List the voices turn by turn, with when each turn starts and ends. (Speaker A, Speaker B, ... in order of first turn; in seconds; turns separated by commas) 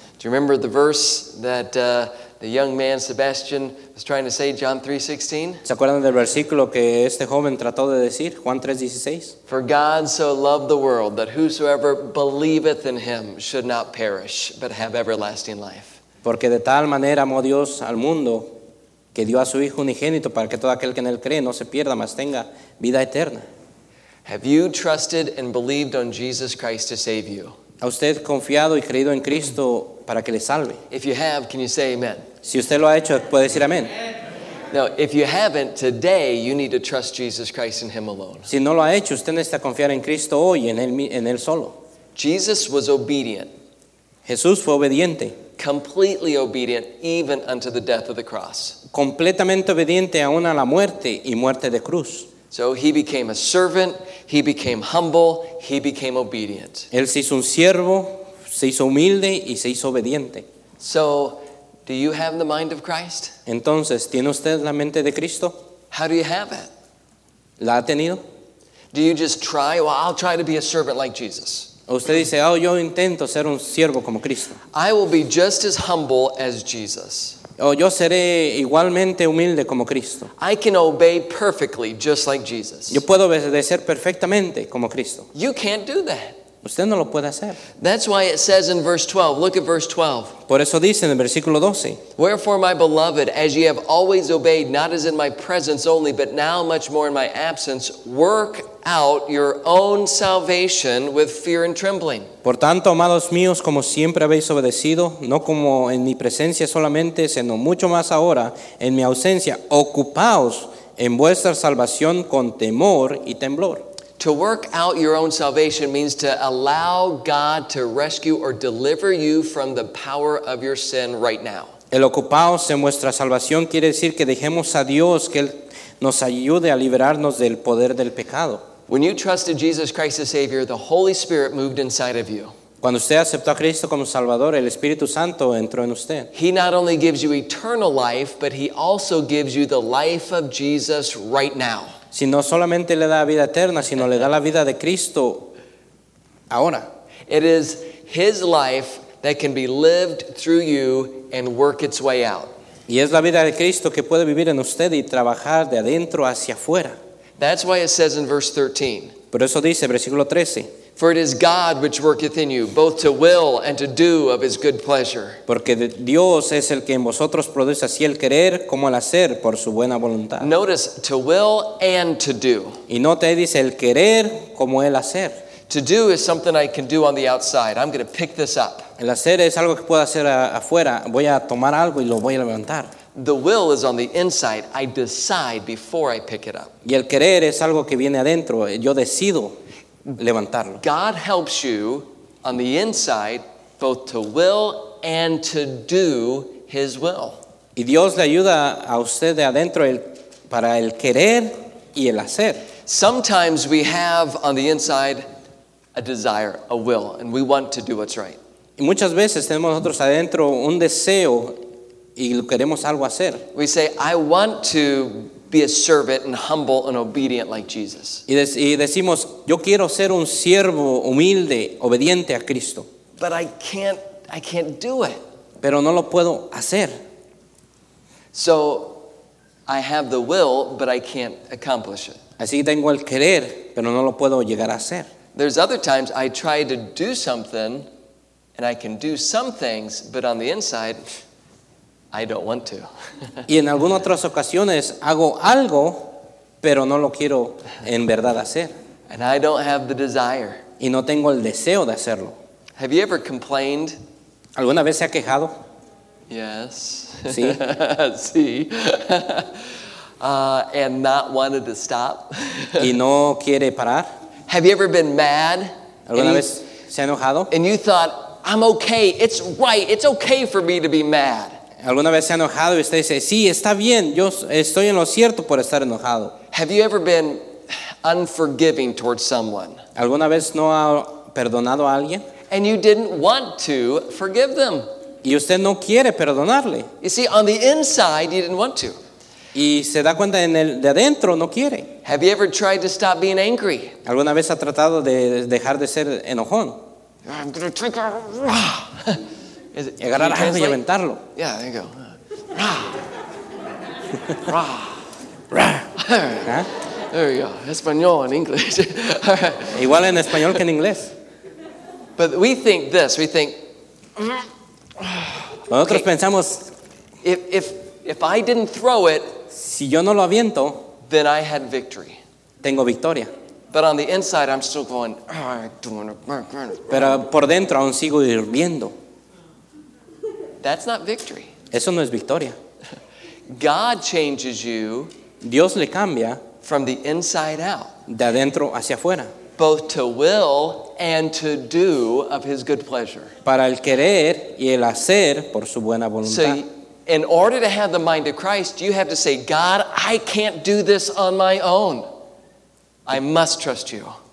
Speaker A: 0.2-5.6, Speaker B: 5.6-9.3, Speaker A: 9.5-16.0, Speaker B: 16.2-18.5, Speaker B: 19.1-23.4, Speaker A: 24.2-27.5, Speaker B: 27.8-30.8, Speaker A: 30.9-32.3, Speaker B: 32.4-33.9, Speaker A: 34.7-38.5, Speaker B: 38.5-41.8, Speaker A: 42.1-43.5, Speaker B: 44.2-45.4, Speaker A: 45.6-48.8, Speaker B: 48.9-52.3, Speaker A: 52.5-56.9, Speaker B: 56.9-60.5, Speaker A: 60.8-63.4, Speaker B: 63.5-65.5, Speaker A: 65.9-66.7, Speaker B: 67.6-68.2, Speaker A: 68.9-71.7, Speaker B: 71.9-74.6, Speaker A: 74.7-77.4, Speaker B: 77.6-80.3, Speaker A: 80.4-83.0, Speaker B: 82.9-85.3, Speaker A: 85.3-86.4, Speaker B: 86.6-87.6, Speaker A: 87.8-90.4, Speaker B: 90.5-92.0, Speaker A: 92.2-102.3, Speaker B: 102.4-113.9, Speaker A: 114.2-121.7, Speaker B: 121.9-128.6, Speaker A: 128.9-132.5, Speaker B: 132.8-136.3, Speaker A: 136.3-141.9, Speaker B: 142.1-145.5, Speaker B: 146.5-146.9, Speaker A: 147.3-152.5, Speaker B: 152.9-157.0, Speaker A: 157.4-159.1, Speaker B: 159.3-160.7, Speaker A: 161.0-165.4, Speaker B: 165.5-170.5, Speaker A: 170.4-172.8, Speaker B: 172.9-175.4, Speaker A: 175.7-178.9, Speaker B: 179.0-182.9, Speaker A: 183.1-186.7, Speaker B: 186.8-189.6, Speaker B: 190.2-190.8, Speaker A: 190.8-197.4, Speaker B: 197.8-202.7, Speaker A: 202.8-205.2, Speaker A: 205.9-208.4, Speaker B: 208.8-211.6, Speaker B: 212.2-213.4, Speaker A: 213.5-218.2, Speaker B: 218.3-222.9, Speaker A: 223.2-225.2, Speaker B: 225.6-227.0, Speaker A: 228.3-229.0, Speaker A: 229.7-232.2, Speaker B: 232.4-235.1, Speaker A: 235.3-237.9, Speaker A: 238.6-241.0, Speaker A: 242.1-243.4, Speaker B: 243.5-248.7, Speaker A: 249.1-250.6, Speaker B: 250.8-252.4, Speaker A: 252.8-254.0, Speaker B: 254.6-255.6, Speaker A: 256.3-262.9, Speaker B: 257.3-257.6, Speaker B: 262.8-264.1, Speaker A: 264.5-266.5, Speaker B: 266.1-267.5, Speaker A: 267.5-271.6, Speaker B: 271.8-276.4, Speaker A: 276.5-279.8, Speaker B: 279.9-282.2, Speaker A: 282.5-284.9, Speaker B: 285.2-286.9, Speaker A: 287.0-289.0, Speaker B: 289.5-291.9, Speaker A: 292.0-293.9, Speaker B: 294.0-296.8, Speaker A: 297.2-299.2, Speaker A: 299.7-300.8, Speaker B: 300.0-301.2, Speaker A: 301.4-303.0, Speaker A: 304.4-305.0, Speaker B: 305.5-305.8, Speaker A: 305.9-310.0, Speaker B: 309.7-311.1, Speaker A: 312.2-313.6, Speaker A: 315.0-316.0, Speaker B: 315.7-316.7, Speaker A: 317.2-319.4, Speaker B: 319.5-320.9, Speaker A: 321.1-322.2, Speaker B: 322.6-323.3, Speaker A: 323.7-327.1, Speaker B: 326.9-328.9, Speaker A: 330.6-331.5, Speaker B: 331.7-332.6, Speaker A: 333.5-335.1, Speaker B: 335.4-336.4, Speaker A: 336.6-337.9, Speaker B: 338.1-339.3, Speaker A: 339.6-343.3, Speaker B: 343.4-346.6, Speaker A: 346.2-352.1, Speaker A: 353.1-354.2